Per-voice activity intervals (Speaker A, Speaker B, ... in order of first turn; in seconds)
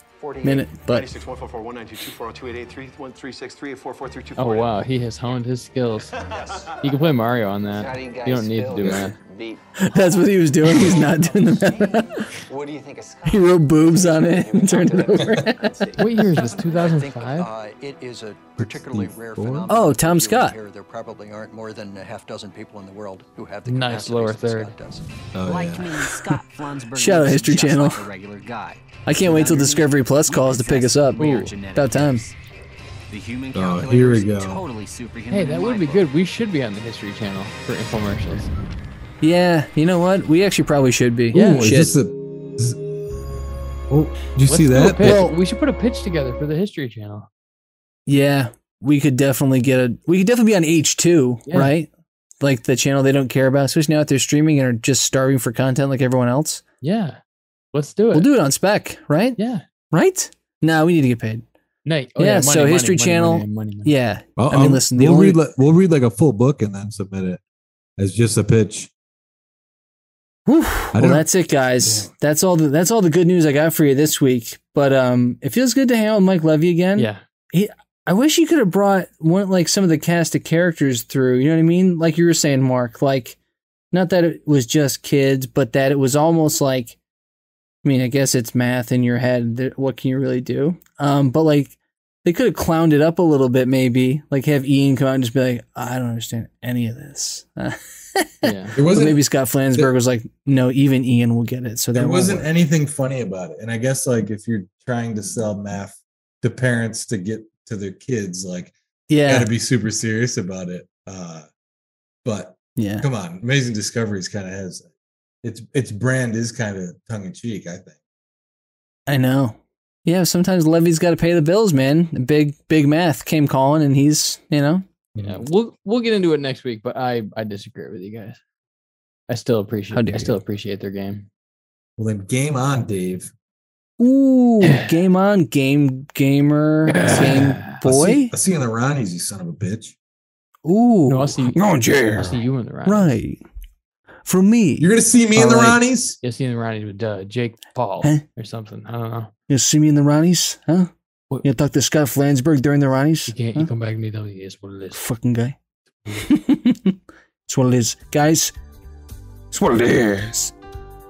Speaker A: 0.2-0.8, 7.7-25.1
Speaker B: 0.4-1.1, 9.8-12.2, 13.2-15.7, 19.7-20.6, 26.9-28.1, 29.0-32.2, 39.2-41.9, 45.0-45.4, 48.0-51.9, 52.4-56.6, 58.1-59.4, 59.9-61.5, 62.2-65.4, 70.5-83.4, 83.9-87.0, 87.8-102.5, 109.1-109.5, 112.8-113.1, 119.1-124.8, 129.9-130.3, 134.0-138.3, 140.6-142.3, 142.8-143.4, 144.2-145.8, 149.5-150.9, 151.4-153.7, 154.9-155.6, 156.1-158.5, 159.5-160.5
Speaker C: 0.8-4.7, 6.2-6.8
Speaker D: 4.3-6.2, 6.7-9.1, 16.0-17.5, 23.6-24.7, 31.2-31.6, 35.3-38.5, 44.5-47.3, 51.5-51.7, 56.8-57.2, 57.7-58.3, 59.4-59.6, 61.8-63.9, 77.0-77.2, 98.4-98.8, 125.2-128.4, 129.3-131.3, 134.6-134.9, 136.9-137.8, 141.1-141.6, 142.2-143.1, 146.2-149.3, 153.3-155.0, 156.0-156.3
Speaker E: 18.6-19.7, 25.3-26.0, 33.5-34.6, 41.3-42.8, 43.9-45.2, 64.4-67.4, 68.0-68.9, 70.9-71.3, 71.8-72.1, 98.8-99.9, 101.9-111.5, 112.2-114.8, 115.4-118.0, 125.2-125.4, 132.0-133.3, 137.8-139.9, 144.8-146.2
Speaker F: 25.4-32.3, 33.1-36.0